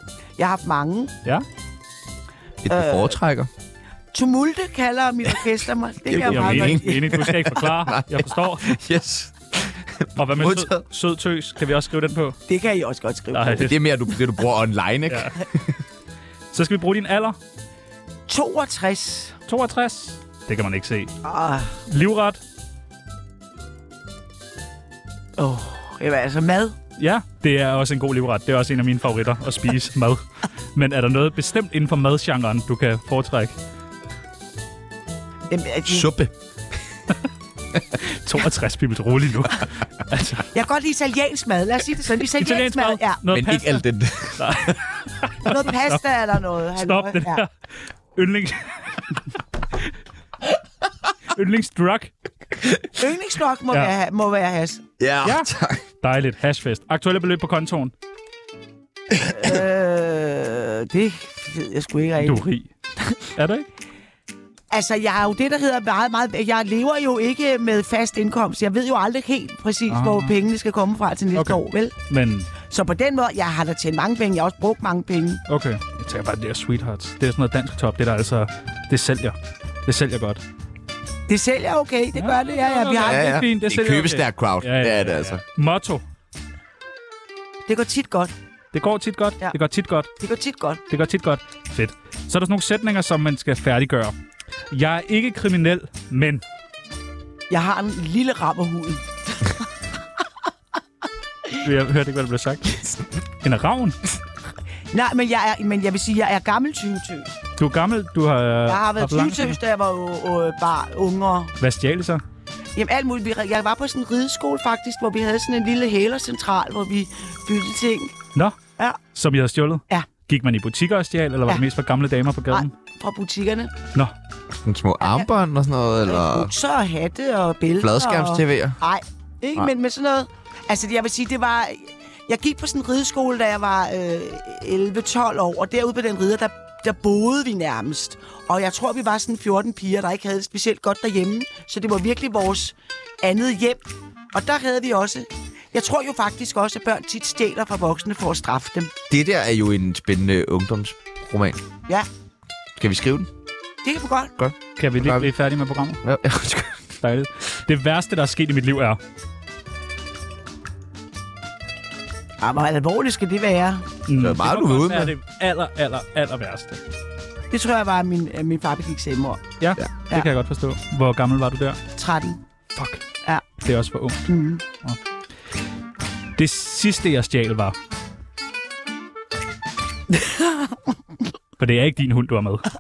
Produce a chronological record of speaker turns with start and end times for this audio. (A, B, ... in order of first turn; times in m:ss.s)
0:00.4-0:01.1 A
0:02.6-0:03.5 B
0:02.7-0:03.2 A
0:04.1-0:07.2 A
0:06.1-0:10.8 B
0:06.2-0:08.8 C
0:10.2-0:12.4 C
0:12.5-0:13.7 A
0:13.3-0:13.8 C
0:13.5-0:15.8 B
0:15.1-0:15.4 C
0:16.5-0:17.4 C
0:18.3-0:19.4 A
0:19.5-0:21.1 C
0:21.2-0:21.8 A
0:21.9-0:22.4 C
0:25.4-0:26.8 A
0:27.0-0:33.6 C
0:35.5-0:36.1 A
0:35.9-0:36.3 B
0:38.0-0:40.5 C
0:40.5-0:43.2 A
0:42.4-0:43.8 C
0:43.3-0:44.8 B
0:44.4-0:46.0 C
0:45.4-0:47.4 A
0:46.8-0:49.2 C
0:51.3-0:52.1 C
0:53.0-0:54.9 A
0:55.0-0:55.8 B
0:55.2-0:55.5 C
0:56.0-0:57.9 C
0:59.3-1:02.4 A
1:02.2-1:02.7 C
1:03.3-1:03.7 C
1:04.7-1:11.9 A
1:09.9-1:10.3 C
1:11.3-1:12.5 C
1:12.7-1:15.4 A
1:15.5-1:20.4 C
1:21.3-1:23.4 A
1:22.2-1:26.0 C
1:23.0-1:25.4 B
1:27.7-1:28.3 A
1:28.7-1:30.1 C
1:30.2-1:30.8 A
1:30.9-1:34.2 C
1:34.7-1:36.4 C
1:37.5-1:39.5 A
1:41.6-1:42.9 C
1:43.4-1:44.0 C
1:44.9-1:47.3 A
1:47.6-1:49.6 C
1:48.7-1:51.5 A
1:51.6-1:52.2 C
1:52.8-1:58.1 A
1:59.1-2:02.7 C
2:02.5-2:03.7 A
2:04.5-2:06.5 B
2:06.1-2:28.9 A
2:07.8-2:08.8 B
2:29.1-2:31.6 B
2:32.8-2:33.3 B
2:33.8-2:34.3 A
2:34.4-2:35.3 B
2:34.8-2:36.0 C
2:36.0-2:36.9 B
2:37.0-2:39.0 C
2:42.4-2:43.9 A
2:44.1-2:46.8 C
2:44.2-2:45.1 B
2:47.5-2:49.4 A
2:49.6-2:51.8 C
2:52.0-2:52.4 A
2:52.7-2:53.0 C
2:53.6-2:54.3 C
2:54.3-2:54.6 A
2:56.4-2:57.8 C
3:00.3-3:00.5 A
3:01.6-3:02.7 C